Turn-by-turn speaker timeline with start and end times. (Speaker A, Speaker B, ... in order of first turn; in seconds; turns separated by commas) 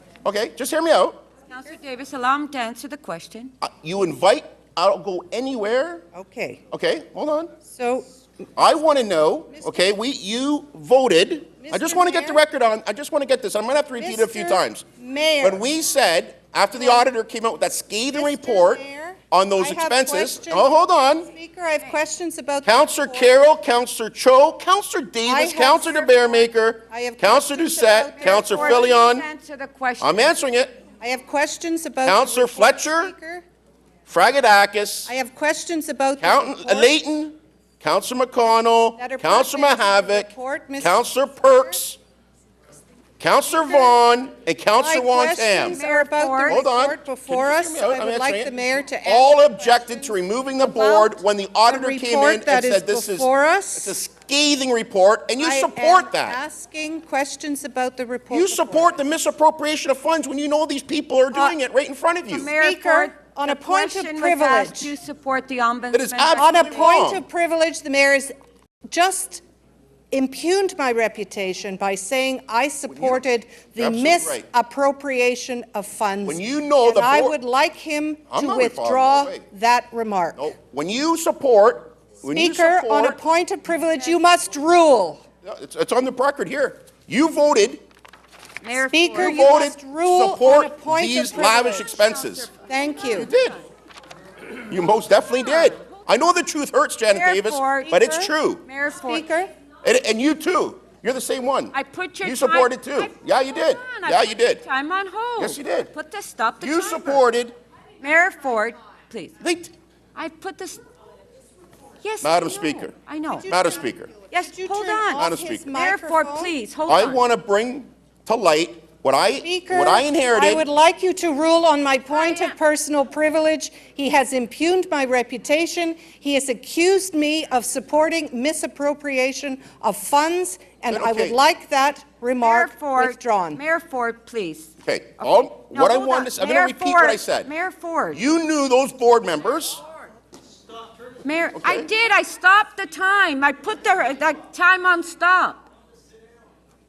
Speaker A: 0.2-1.2, Speaker B: 1.5-3.5, Speaker A: 3.6-6.0, Speaker C: 6.1-6.6, Speaker A: 6.7-7.5, Speaker C: 7.7-8.1, Speaker A: 8.6-14.8, Speaker C: 9.5-9.9, Speaker C: 11.6-12.4, Speaker C: 14.0-15.6, Speaker A: 15.4-21.3, Speaker C: 16.7-17.1, Speaker C: 18.1-20.7, Speaker C: 21.2-23.4, Speaker A: 22.6-29.2, Speaker C: 25.2-28.9, Speaker B: 28.2-30.3, Speaker A: 30.0-30.7, Speaker C: 31.0-33.4, Speaker A: 32.0-33.1, Speaker A: 34.1-35.1, Speaker C: 35.1-37.0, Speaker A: 36.2-42.0, Speaker C: 39.0-41.0, Speaker A: 43.2-45.8, Speaker C: 44.8-53.9, Speaker B: 45.6-46.6, Speaker A: 46.5-56.4, Speaker C: 55.4-59.0, Speaker A: 58.3-62.5, Speaker B: 62.3-67.0, Speaker C: 62.5-64.9, Speaker A: 65.9-67.2, Speaker C: 66.3-68.3, Speaker C: 68.9-69.4, Speaker C: 70.1-80.4, Speaker A: 72.9-73.2, Speaker A: 73.8-74.5, Speaker A: 76.2-77.3, Speaker A: 78.3-79.4, Speaker A: 80.3-83.2, Speaker C: 82.3-85.2, Speaker A: 85.4-87.8, Speaker B: 88.6-89.5, Speaker C: 88.9-91.9, Speaker A: 89.1-92.5, Speaker B: 91.5-93.6, Speaker C: 92.7-93.3, Speaker A: 93.1-93.6, Speaker A: 94.6-98.6, Speaker B: 95.3-96.0, Speaker B: 97.1-98.0, Speaker C: 97.8-98.3, Speaker B: 98.6-99.3, Speaker C: 98.9-99.5, Speaker A: 99.8-104.6, Speaker B: 101.7-107.2, Speaker A: 105.4-105.9, Speaker A: 106.6-107.5, Speaker B: 108.0-109.3, Speaker A: 109.4-109.7, Speaker B: 110.1-110.8, Speaker B: 112.0-113.5, Speaker A: 112.2-112.9, Speaker C: 113.3-116.5, Speaker A: 113.5-114.1, Speaker B: 114.3-117.2, Speaker A: 115.2-115.7, Speaker A: 116.9-120.6, Speaker C: 119.4-133.6, Speaker B: 122.1-122.6, Speaker A: 130.9-131.4, Speaker B: 132.4-134.7, Speaker A: 134.8-137.5, Speaker B: 135.4-138.2, Speaker A: 138.1-139.8, Speaker B: 141.2-145.7, Speaker A: 141.5-141.9